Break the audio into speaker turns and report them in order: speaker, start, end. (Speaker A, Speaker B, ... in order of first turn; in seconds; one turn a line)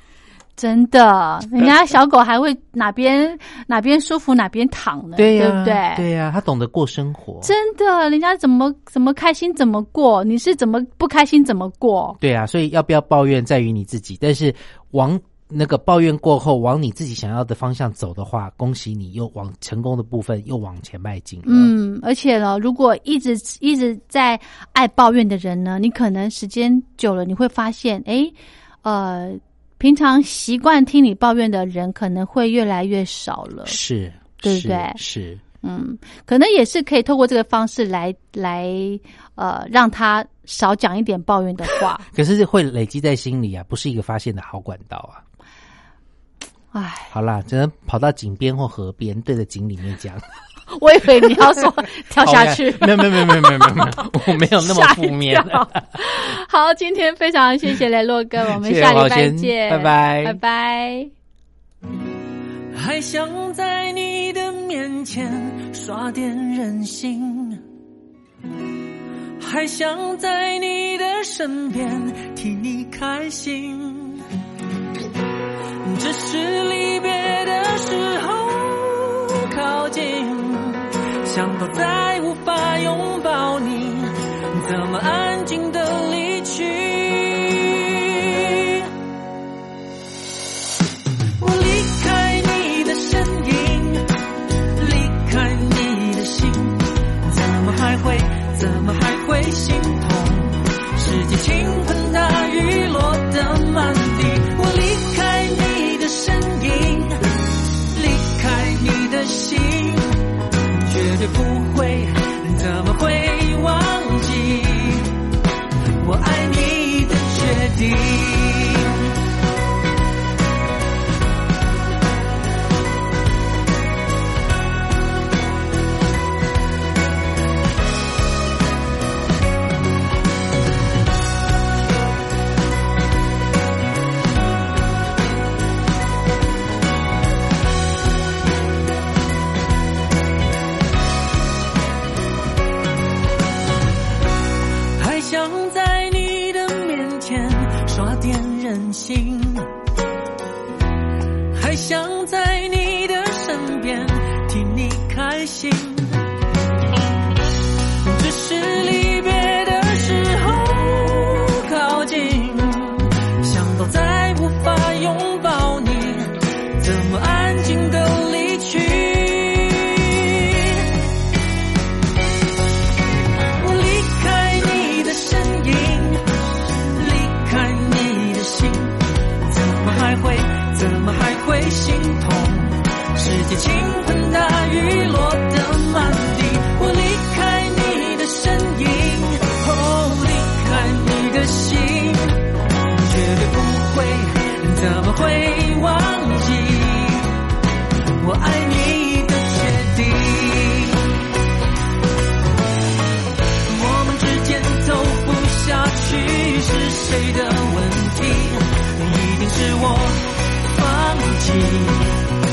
Speaker A: 0.6-6.1
Speaker B: 5.2-7.5
Speaker A: 7.4-12.2
Speaker B: 12.2-21.7
Speaker A: 21.4-33.8
Speaker B: 33.6-35.4
Speaker A: 34.4-35.0
Speaker A: 35.6-42.0
Speaker B: 42.1-45.2
Speaker A: 46.7-47.1
Speaker B: 47.1-50.2
Speaker A: 50.7-61.1
Speaker B: 50.9-55.8
Speaker B: 58.6-60.4
Speaker C: 62.7-67.6
Speaker C: 69.4-74.2
Speaker C: 75.8-88.9
Speaker C: 91.4-94.0
Speaker C: 94.8-107.2
Speaker C: 107.9-115.1
Speaker C: 116.0-119.1
Speaker C: 144.9-149.7
Speaker C: 151.5-156.2
Speaker C: 158.0-170.8
Speaker C: 173.6-176.2
Speaker C: 176.9-192.3
Speaker C: 192.9-197.3
Speaker C: 198.2-201.2
Speaker C: 203.7-212.2